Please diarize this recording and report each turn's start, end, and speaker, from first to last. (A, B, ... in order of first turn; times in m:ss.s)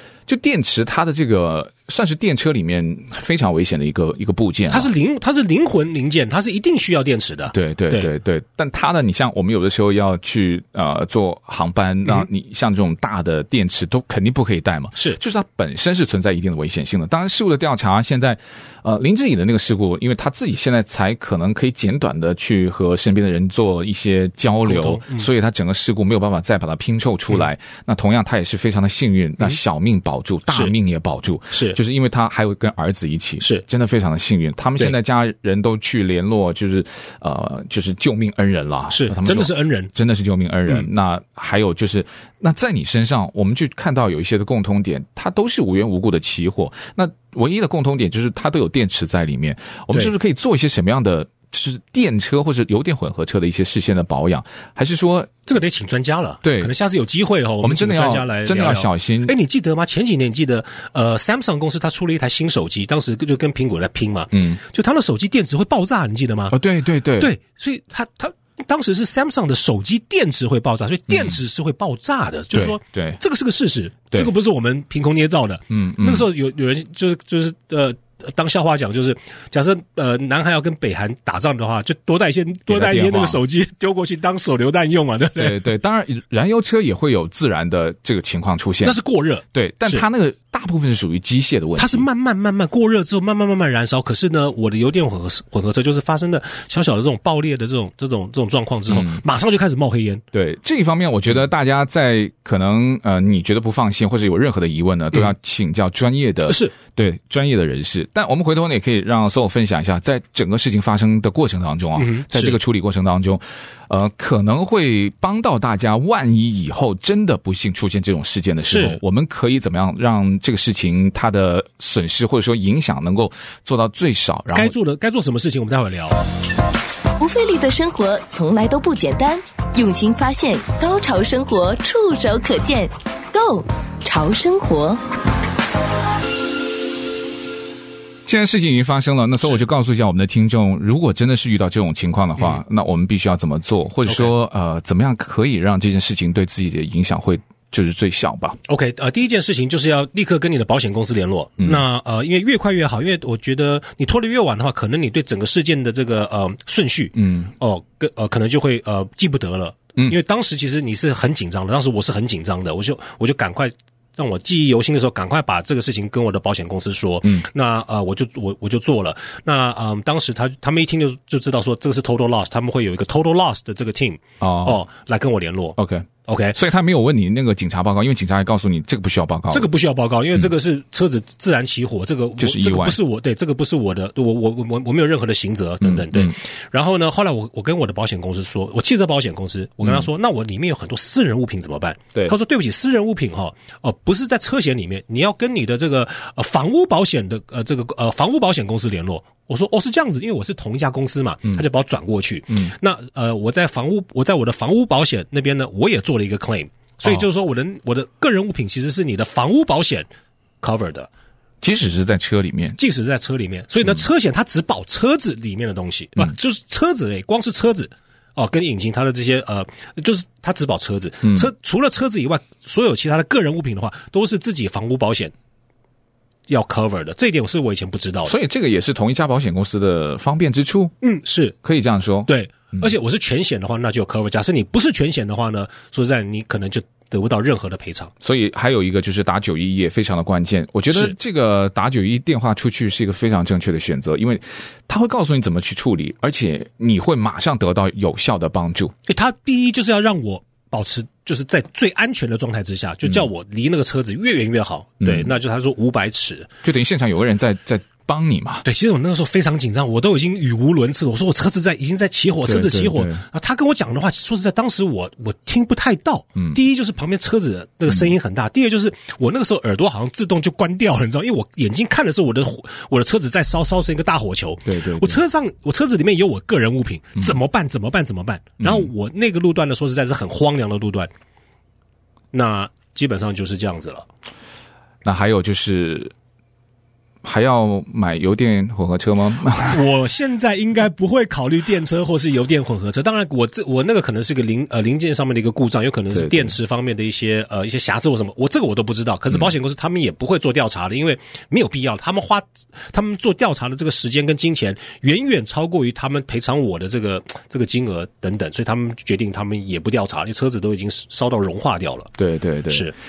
0:00.3-0:04.9 A
0:04.7-0:08.1 B
0:07.5-0:55.3 A
0:24.6-0:25.3 B
0:31.5-0:31.8 B
0:38.9-0:39.9 B
0:55.5-1:06.6 B
0:56.4-0:56.7 A
0:57.6-0:59.3 A
1:04.3-1:04.6 A
1:06.5-1:07.3 A
1:07.2-1:25.6 B
1:11.1-1:11.4 A
1:12.5-1:13.2 A
1:15.7-1:16.3 A
1:22.7-1:23.4 A
1:25.4-1:29.0 A
1:28.8-1:30.0 B
1:29.5-1:32.1 A
1:31.8-1:40.2 B
1:38.9-1:39.2 A
1:40.3-2:04.7 A
1:46.5-1:46.7 B
1:52.0-1:52.6 B
1:58.7-1:59.0 B
2:04.5-2:06.2 B
2:07.2-2:15.0 C
2:18.3-2:28.6 A
2:24.1-2:24.3 B
2:28.7-2:56.6 B
2:37.2-2:37.5 A
2:54.4-2:54.8 A
2:55.8-2:59.7 A
2:59.5-3:30.1 B
3:02.4-3:03.0 A
3:05.8-3:06.4 A
3:30.6-3:31.1 B
3:31.6-3:32.8 A
3:32.8-3:45.3 B
3:46.5-3:48.4 B
3:48.2-3:50.9 A
3:51.0-3:51.6 B
3:51.6-3:52.9 A
3:52.3-3:58.1 B
3:58.2-4:08.9 A
4:09.1-4:16.5 B
4:15.0-4:15.3 A
4:16.6-4:18.6 A
4:18.6-4:41.1 B
4:22.4-4:23.2 A
4:34.7-4:35.2 A
4:38.6-4:38.9 A
4:42.3-4:44.1 B
4:45.0-4:46.1 A
4:47.2-4:49.8 A
4:49.6-5:12.1 B
4:56.1-4:56.6 A
5:12.2-5:12.9 A